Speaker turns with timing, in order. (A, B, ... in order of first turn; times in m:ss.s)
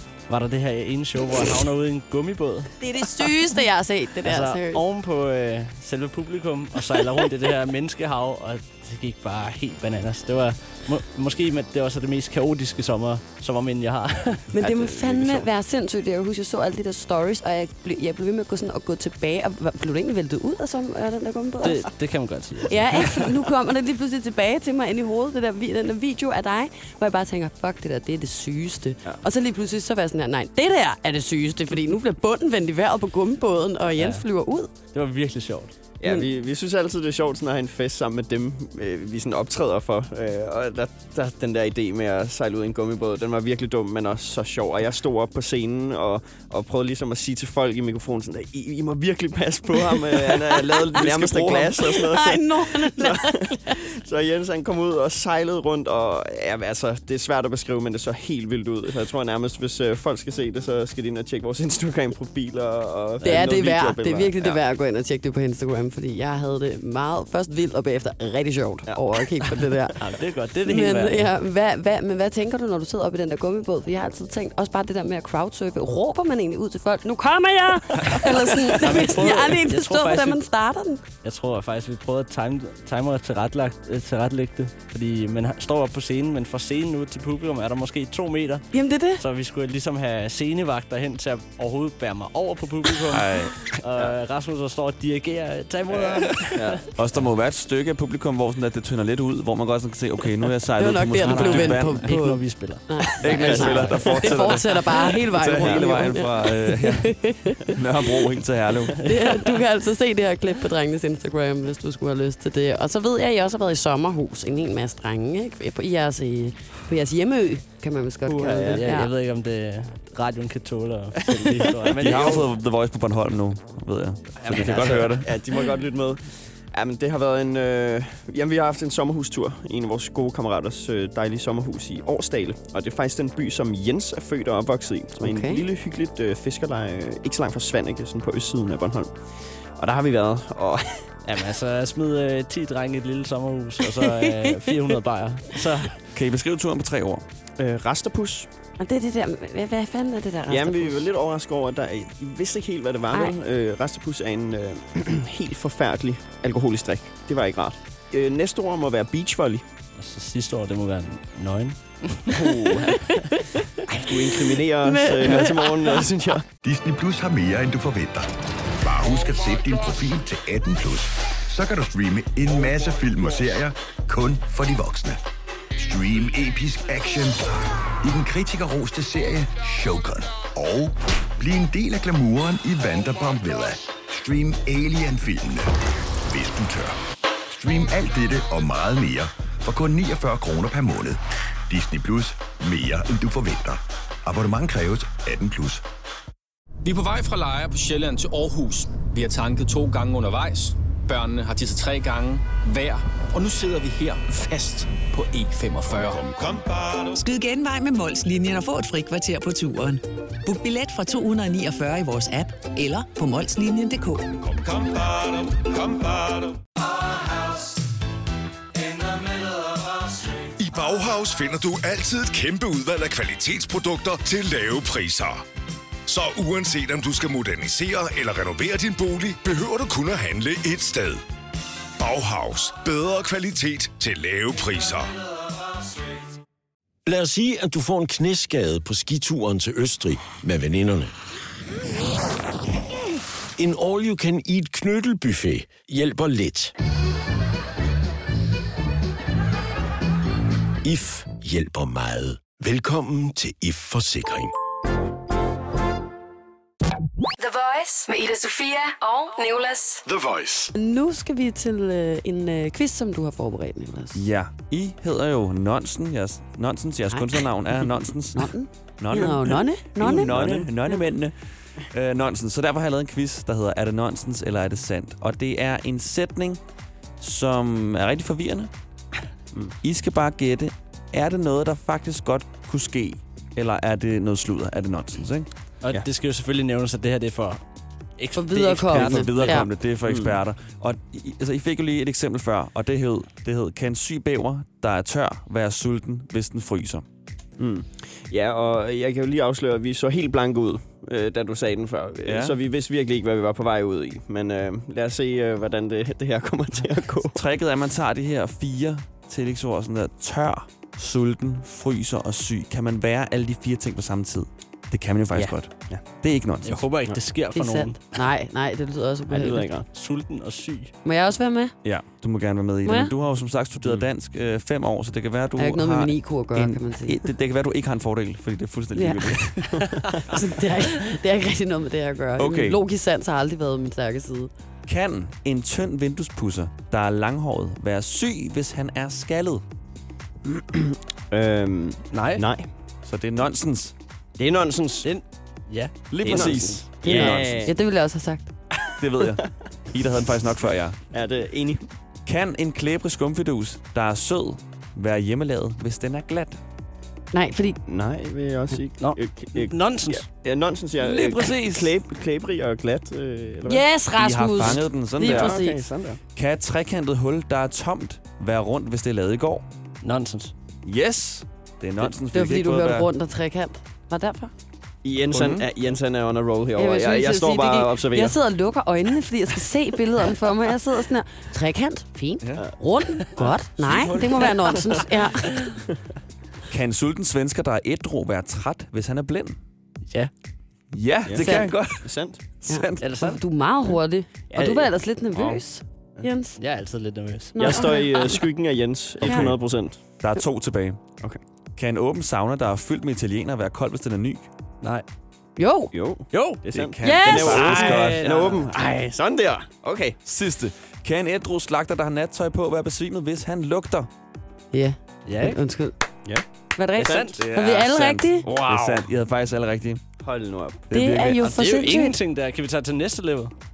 0:00.3-0:03.3 A
0:02.8-0:04.8 B
0:04.2-0:14.5 A
0:14.5-0:21.9 B
0:14.6-0:15.5 C
0:21.6-0:23.2 A
0:22.7-0:34.7 B
0:34.0-0:34.2 A
0:34.9-0:35.7 A
0:36.0-1:04.6 C
0:50.5-0:50.8 B
0:51.0-0:51.7 D
0:51.8-0:53.8 B
1:03.2-1:10.0 B
1:08.8-1:09.8 C
1:10.0-1:11.3 A
1:10.6-1:21.0 B
1:18.7-1:20.4 A
1:21.2-1:36.9 A
1:28.7-1:29.2 B
1:33.1-1:33.6 D
1:36.5-1:36.8 C
1:37.0-1:42.1 D
1:40.8-1:47.7 B
1:41.2-1:42.8 A
1:43.2-1:47.2 D
1:43.3-1:44.2 C
1:43.4-1:43.7 A
1:45.6-1:45.9 C
1:47.7-1:49.0 D
1:49.0-1:59.1 B
1:58.2-1:58.9 C
1:58.7-2:02.5 A
2:02.0-2:05.3 D
2:02.1-2:02.4 C
2:04.4-2:19.1 C
2:15.2-2:15.6 B
2:19.8-2:21.0 C
2:21.2-2:26.0 A
2:26.1-2:27.2 D
2:27.6-2:28.5 C
2:28.8-2:31.1 B
2:30.5-2:39.6 C
2:40.0-2:42.4 A
2:42.3-2:43.1 C
2:43.0-2:43.6 B
2:43.8-2:46.5 C
2:44.8-2:46.1 B
2:46.6-2:55.2 E
2:55.8-3:05.7 E
3:06.2-3:15.8 E
3:16.8-3:26.3 F
3:26.4-3:27.1 G
3:27.1-3:34.4 H
3:34.5-3:36.5 G
3:40.5-3:45.4 G
3:46.1-3:51.2 G
3:52.0-3:55.2 G
3:57.0-4:01.1 I
4:03.6-4:06.7 I
4:10.8-4:14.5 I
4:17.4-4:20.0 J
4:20.1-4:20.7 G
4:20.7-4:24.2 B
4:24.1-4:36.6 D
4:27.1-4:27.4 B
4:28.3-4:30.3 B
4:30.1-4:30.7 C
4:37.2-4:38.7 D
4:39.8-4:45.5 D
4:45.8-4:47.6 A
4:48.2-4:49.6 A
4:48.4-4:49.7 B
4:48.9-4:57.0 D
4:50.0-4:50.4 C
4:57.6-5:07.4 C
5:02.2-5:02.6 D
5:07.3-5:16.8 D
5:15.3-5:16.0 C
5:16.6-5:18.0 A
5:17.5-5:19.6 B
5:19.3-5:19.9 C
5:19.9-5:20.9 A
5:21.0-5:21.7 B
5:21.8-5:29.8 D
5:22.8-5:23.1 B
5:25.6-5:27.2 B
5:28.9-5:29.6 B
5:30.3-5:34.5 B
5:32.4-5:32.8 D
5:34.9-5:39.6 D
5:40.4-5:42.7 C
5:42.1-5:42.4 A
5:43.0-5:43.9 D
5:44.4-5:45.1 C
5:45.0-5:46.8 A
5:46.1-5:47.7 D
5:46.2-5:47.7 C
5:47.0-5:48.5 B
5:49.0-5:51.0 D
5:51.1-5:51.8 C
5:52.2-5:56.6 D
5:57.3-5:57.8 B
5:57.9-6:03.8 C
5:59.0-6:00.3 A
6:01.0-6:01.9 D
6:03.6-6:05.8 B
6:04.1-6:05.6 D
6:05.2-6:06.2 C
6:06.4-6:09.6 D
6:10.0-6:10.5 A
6:10.8-6:13.1 D
6:12.3-6:14.5 B
6:15.0-6:18.4 C
6:15.3-6:15.6 D
6:16.8-6:25.7 B
6:23.4-6:25.0 C
6:24.0-6:25.0 A
6:26.7-6:29.6 D
6:30.9-6:32.1 D
6:31.2-6:32.4 C
6:31.4-6:31.7 B
6:32.6-6:33.1 D
6:32.7-6:36.6 B
6:33.0-6:33.4 A
6:34.5-6:35.6 C
6:36.6-6:37.9 A
6:37.5-6:38.4 B
6:37.6-6:40.0 C
6:39.2-6:39.6 D
6:40.2-6:41.0 D
6:41.8-6:44.5 D
6:45.6-6:45.9 B
6:45.9-6:50.2 C
6:46.3-6:46.6 A
6:46.7-6:48.3 D
6:47.0-6:47.9 B
6:47.3-6:48.7 A
6:50.2-6:54.1 D
6:54.7-6:55.9 B
6:55.2-6:55.6 A
6:56.8-6:58.5 B
6:57.0-6:57.4 A
6:57.0-6:57.3 C
6:57.4-7:00.0 D
6:58.4-6:59.1 C
7:00.2-7:00.9 C
7:00.9-7:01.5 D
7:00.9-7:02.2 B
7:01.4-7:03.5 A